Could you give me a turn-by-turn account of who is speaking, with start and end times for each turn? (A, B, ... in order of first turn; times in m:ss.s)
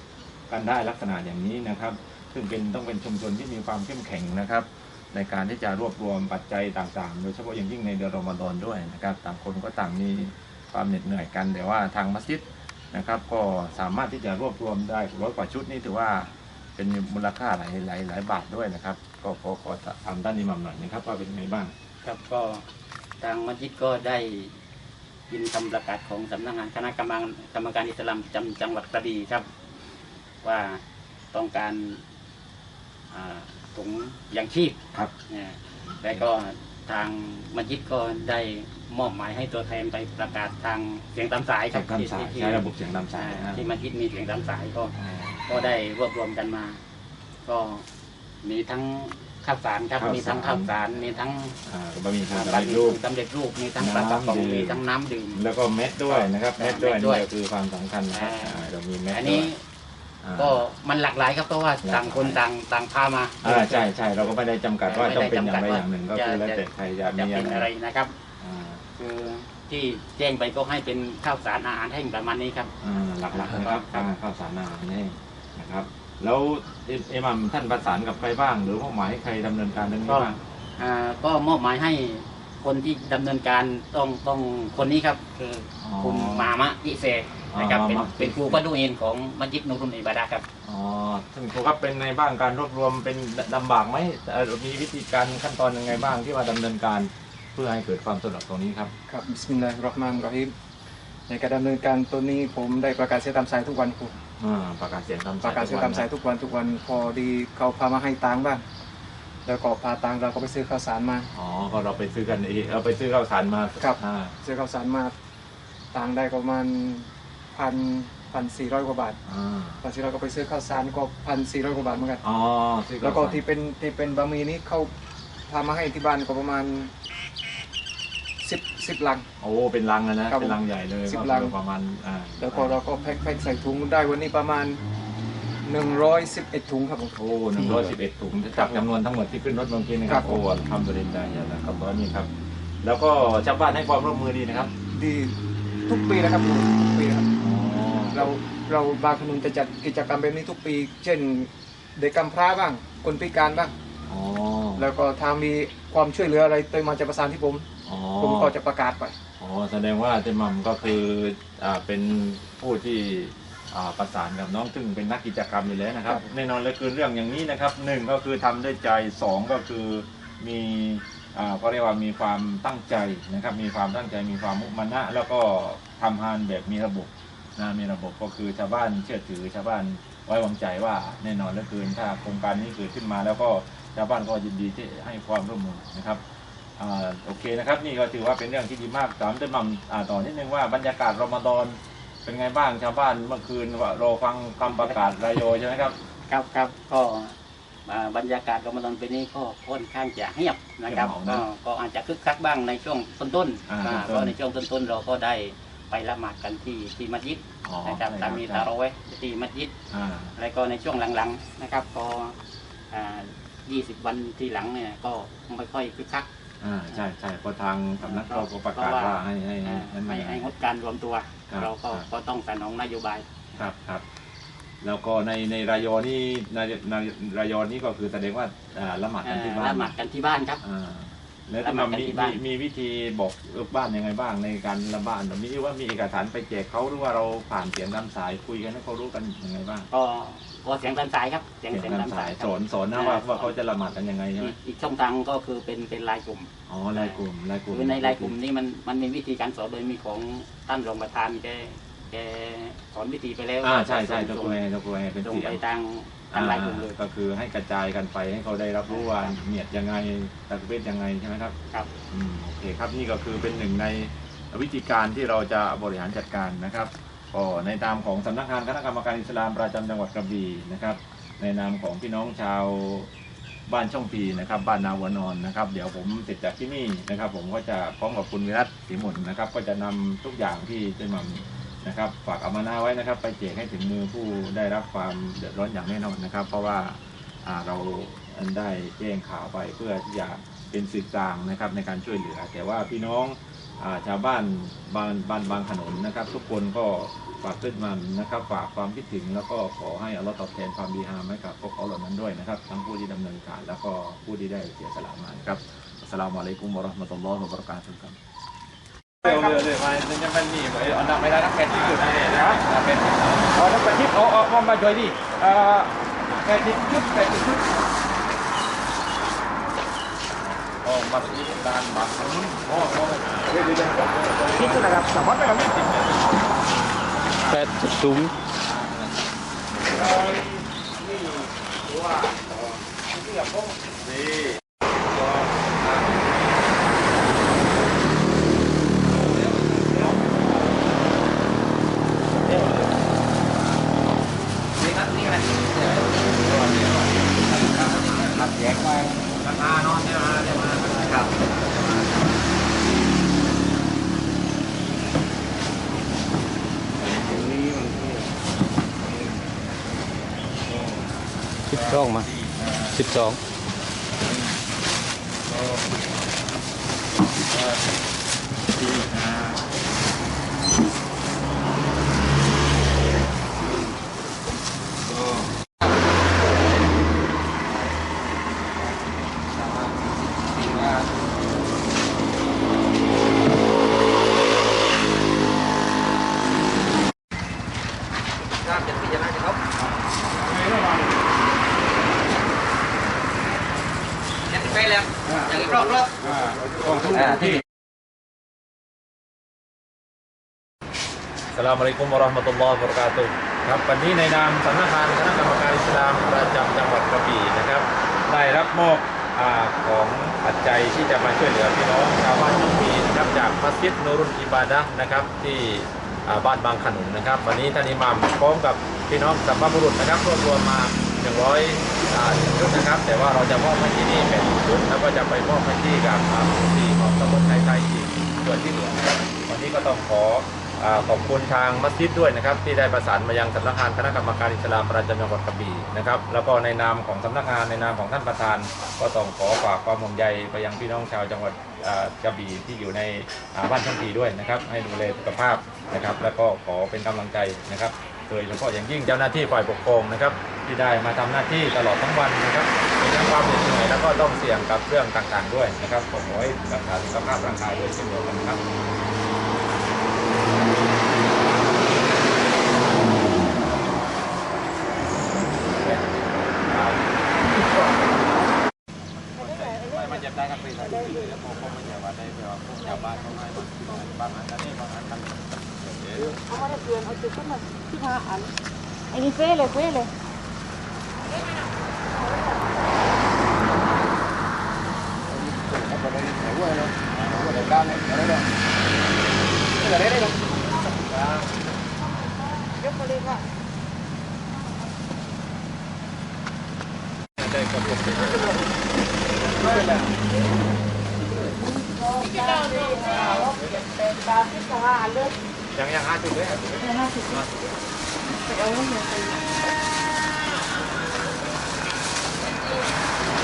0:00.5-0:21.7 A
0:22.0-0:22.6 B
0:23.2-0:24.6 B
0:25.3-0:29.5 B
0:30.4-0:30.8 B
0:31.3-0:32.0 B
0:33.1-0:42.6 B
0:41.7-0:43.6 A
0:43.2-0:44.9 B
0:44.9-0:45.8 A
0:45.5-0:46.8 B
0:47.4-0:47.8 B
0:48.4-0:51.6 B
0:50.0-0:50.7 A
0:51.6-0:53.0 A
0:52.3-0:55.4 B
0:53.8-0:54.8 A
0:55.4-0:59.5 A
0:56.1-0:57.3 B
0:58.1-0:59.6 B
1:00.2-1:00.6 A
1:00.4-1:03.9 B
1:01.8-1:02.4 A
1:03.4-1:07.7 A
1:04.9-1:08.1 B
1:08.4-1:08.8 A
1:09.0-1:12.7 B
1:12.8-1:20.4 A
1:13.3-1:14.1 B
1:20.1-1:30.4 B
1:25.8-1:26.5 A
1:27.5-1:28.6 A
1:30.6-1:38.9 A
1:39.1-1:40.5 C
1:41.3-1:44.1 C
1:44.4-1:46.1 A
1:45.4-1:48.6 C
1:49.5-1:51.3 C
1:51.3-1:54.3 A
1:53.8-1:55.1 C
1:55.9-1:59.2 C
1:59.3-1:59.8 A
1:59.8-2:02.2 C
2:02.2-2:03.4 A
2:03.0-2:04.9 C
2:05.5-2:06.9 C
2:08.4-2:09.2 C
2:09.4-2:12.8 A
2:10.3-2:11.5 C
2:12.4-2:14.8 C
2:15.6-2:17.9 C
2:17.2-2:22.3 A
2:18.6-2:18.8 C
2:20.1-2:20.4 C
2:22.8-2:24.7 A
2:24.9-2:25.3 C
2:25.9-2:27.3 C
2:27.4-2:28.3 A
2:28.1-2:33.7 C
2:34.1-2:34.9 A
2:34.8-2:37.7 C
2:37.8-2:38.5 A
2:38.2-2:39.1 C
2:39.4-3:06.2 A
3:06.8-3:16.0 A
3:16.3-3:29.7 B
3:20.9-3:21.4 A
3:23.7-3:24.3 A
3:27.6-3:28.7 A
3:29.9-3:30.3 A
3:30.4-3:32.4 B
3:32.9-3:36.3 B
3:36.6-3:40.5 A
3:38.0-3:43.2 B
3:41.5-3:42.1 A
3:43.6-3:44.0 A
3:44.8-3:49.9 A
3:49.2-3:50.6 B
3:50.6-3:59.9 A
3:51.6-3:52.4 B
3:59.9-4:03.5 B
4:01.7-4:04.6 A
4:04.4-4:14.6 B
4:06.7-4:08.4 A
4:13.6-4:15.6 A
4:15.2-4:16.9 B
4:16.3-4:21.6 A
4:18.9-4:19.3 B
4:22.1-4:33.1 A
4:33.7-5:08.2 A
5:09.2-5:17.8 A
5:20.4-5:26.5 A
5:27.2-5:27.9 A
5:27.5-5:28.3 B
5:28.6-5:29.2 A
5:29.7-5:36.9 A
5:39.0-5:41.0 A
5:42.4-5:43.9 A
5:44.8-5:52.4 A
6:00.7-6:01.1 A
6:01.7-6:03.0 A
6:01.7-6:02.3 B
6:03.0-6:03.4 B
6:04.1-6:04.5 A
6:05.5-6:05.8 A
6:07.3-6:07.8 A
6:08.7-6:09.6 A
6:15.1-6:15.5 A
6:19.5-6:21.1 A
6:30.4-6:30.9 A
6:35.3-6:35.6 A
6:36.2-6:37.6 A
6:41.5-7:38.6 A
7:42.9-7:44.0 A
7:45.6-7:48.5 A
7:49.3-7:56.8 A
7:56.7-7:58.5 D
7:59.1-8:00.1 D
8:07.1-8:08.0 A
8:11.1-8:11.4 A
8:12.2-8:13.4 D
8:17.4-8:18.6 A
8:19.5-8:20.1 A
8:21.8-8:25.3 D
8:23.0-8:23.9 A
8:25.7-8:27.8 A
8:28.5-8:29.4 D